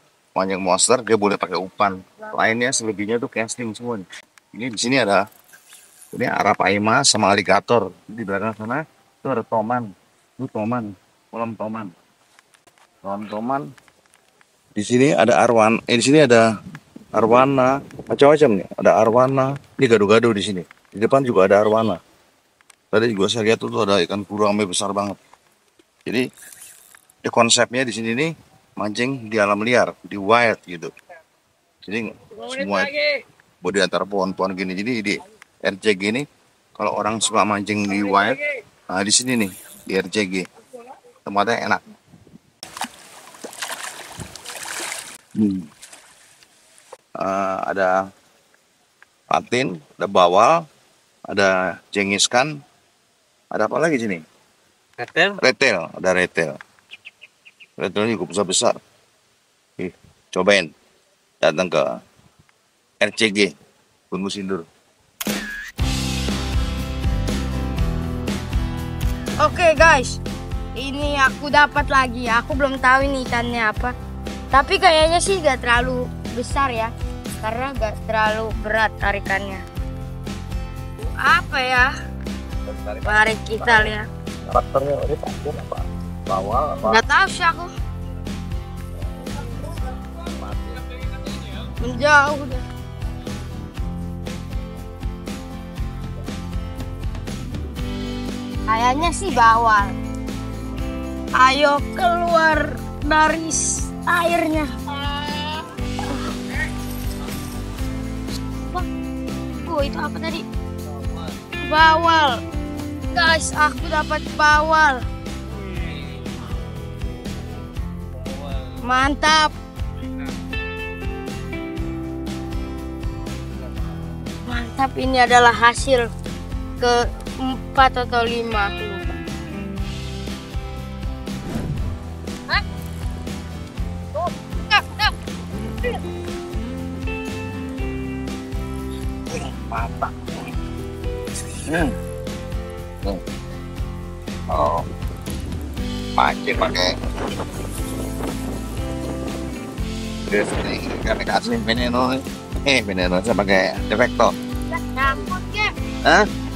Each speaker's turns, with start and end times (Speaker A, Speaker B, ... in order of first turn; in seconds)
Speaker A: 0.3-5.2, 6.1-11.9, 13.0-13.7, 14.8-16.5, 17.1-22.0, 22.9-25.2, 27.2-30.9, 31.8-33.0, 33.6-36.2, 36.8-40.5, 41.2-41.8, 45.4-45.7, 47.2-47.9, 49.3-50.6, 51.3-52.5, 53.5-54.2, 55.2-56.6, 57.8-58.8, 59.8-60.7, 61.4-62.0, 63.0-63.5, 64.1-64.7, 82.7-83.9, 84.5-87.0, 90.0-91.0, 139.3-140.3, 141.5-141.9, 144.5-144.9, 146.2-147.0, 150.3-154.4
Speaker B: 69.4-70.2, 70.8-73.9, 74.5-79.6, 81.2-81.9, 83.0-84.1, 86.8-87.7, 91.8-92.6, 98.7-100.0, 101.4-106.3, 108.5-108.9, 109.6-110.4, 111.6-112.4, 113.1-115.0, 118.8-119.5, 124.5-126.1, 126.8-129.0, 134.1-135.1, 154.7-155.7